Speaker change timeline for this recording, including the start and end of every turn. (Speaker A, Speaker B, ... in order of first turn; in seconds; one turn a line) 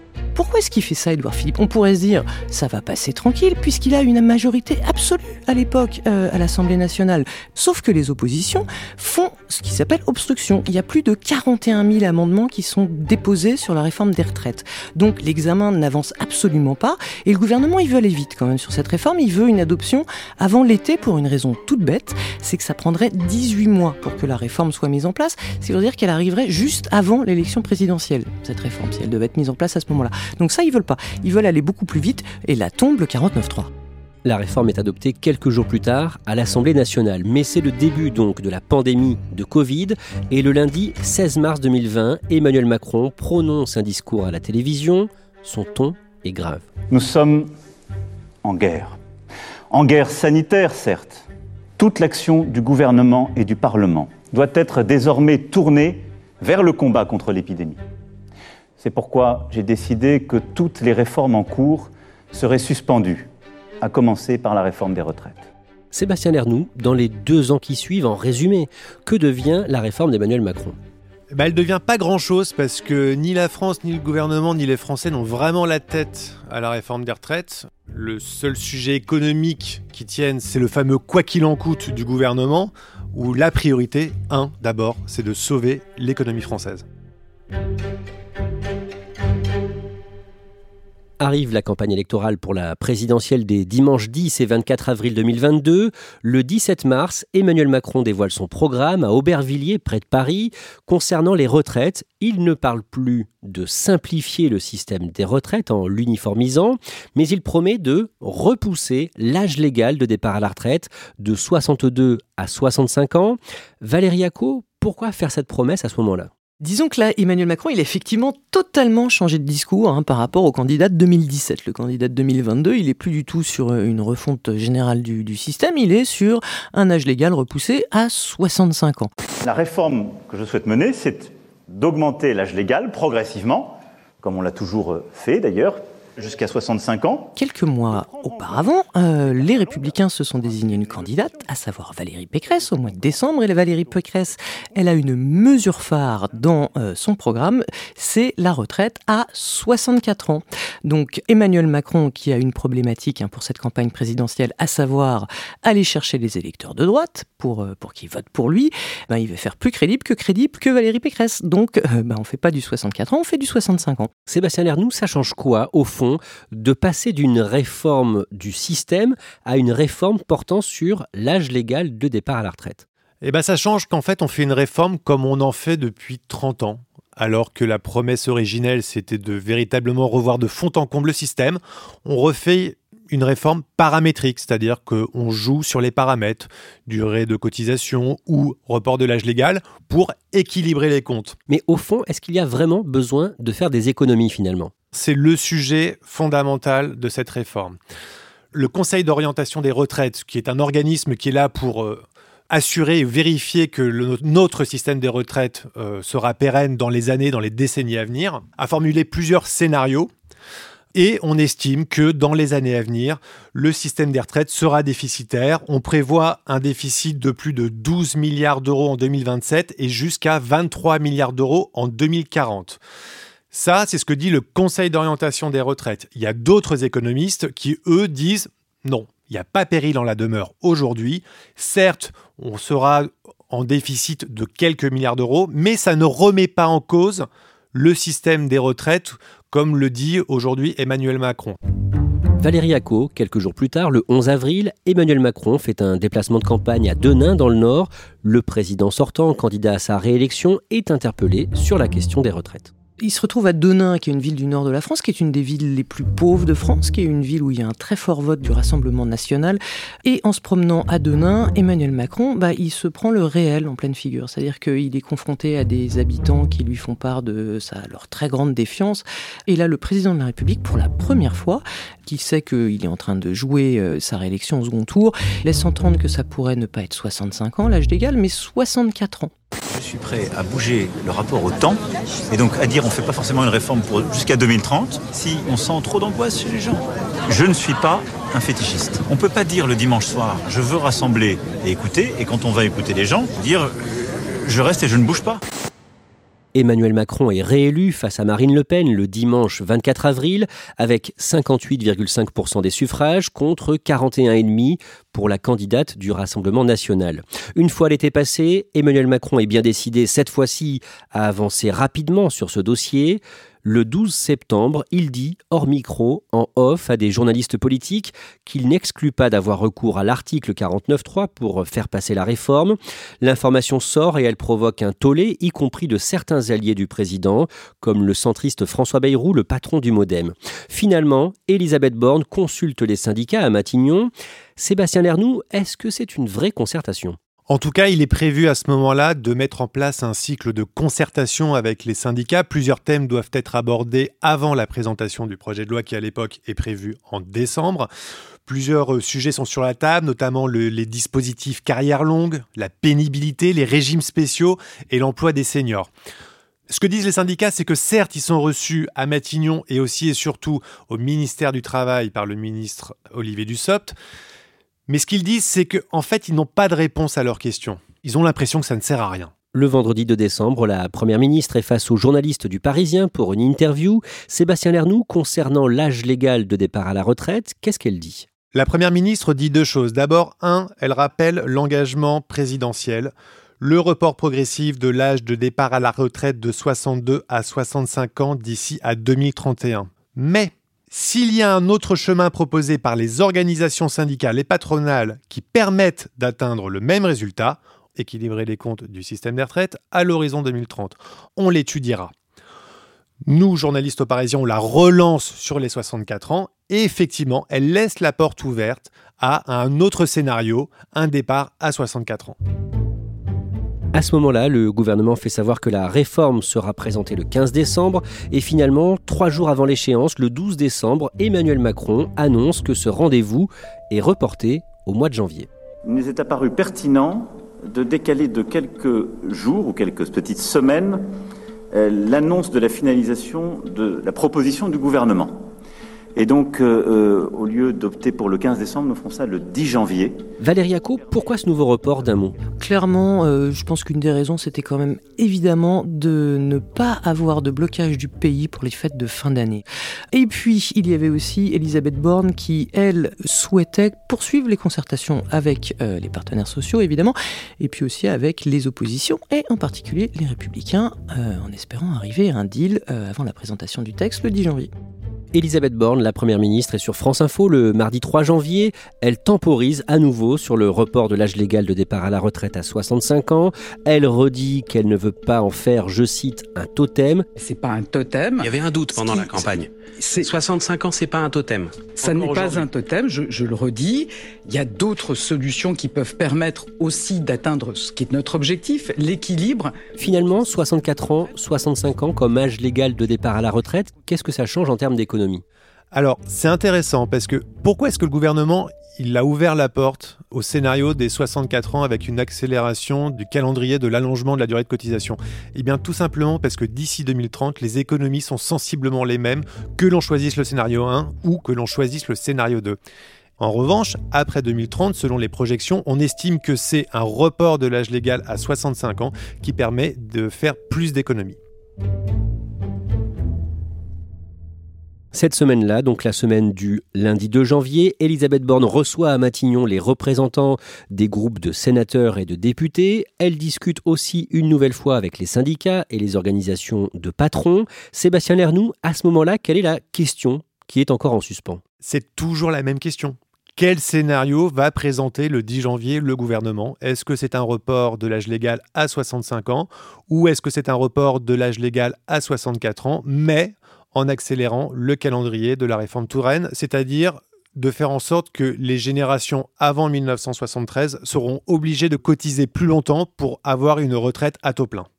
Speaker A: 0.3-33.7
Speaker B: 34.2-46.7
Speaker C: 46.9-47.5
Speaker C: 48.4-49.0
Speaker C: 49.7-51.2
Speaker C: 51.8-57.8
Speaker C: 58.8-63.3
Speaker C: 63.8-65.5
Speaker B: 65.9-70.8
Speaker D: 71.3-86.8
Speaker B: 91.2-116.3
Speaker A: 116.6-129.1
Speaker C: 129.4-137.3
Speaker A: 137.3-164.1
Speaker B: 164.3-172.8
Speaker D: 173.2-191.3
Speaker B: 191.5-194.7
Speaker D: 194.9-197.8
Speaker D: 198.5-210.1
Speaker D: 210.9-222.8
Speaker D: 223.5-241.6
Speaker B: 242.4-252.7
Speaker A: 253.0-279.3
Speaker E: 279.7-293.7
Speaker E: 294.4-295.4
Speaker B: 296.5-337.2
Speaker D: 337.5-347.9
Speaker D: 348.4-355.9
Speaker D: 356.7-363.9
Speaker D: 364.9-369.3
Speaker B: 369.5-378.3
Speaker D: 378.5-402.1
Speaker D: 403.2-412.4
Speaker B: 413.9-425.5
Speaker C: 425.8-431.1
Speaker C: 431.7-435.5
Speaker C: 436.1-440.2
Speaker B: 440.4-442.4
Speaker A: 442.6-464.7
Speaker B: 465.3-477.2
Speaker F: 477.4-480.3
Speaker G: 478.4-482.6
Speaker F: 481.9-489.8
Speaker B: 490.0-495.4
Speaker D: 495.9-512.8
Speaker D: 513.4-521.4
Speaker B: 525.1-541.6
Speaker D: 541.8-564.9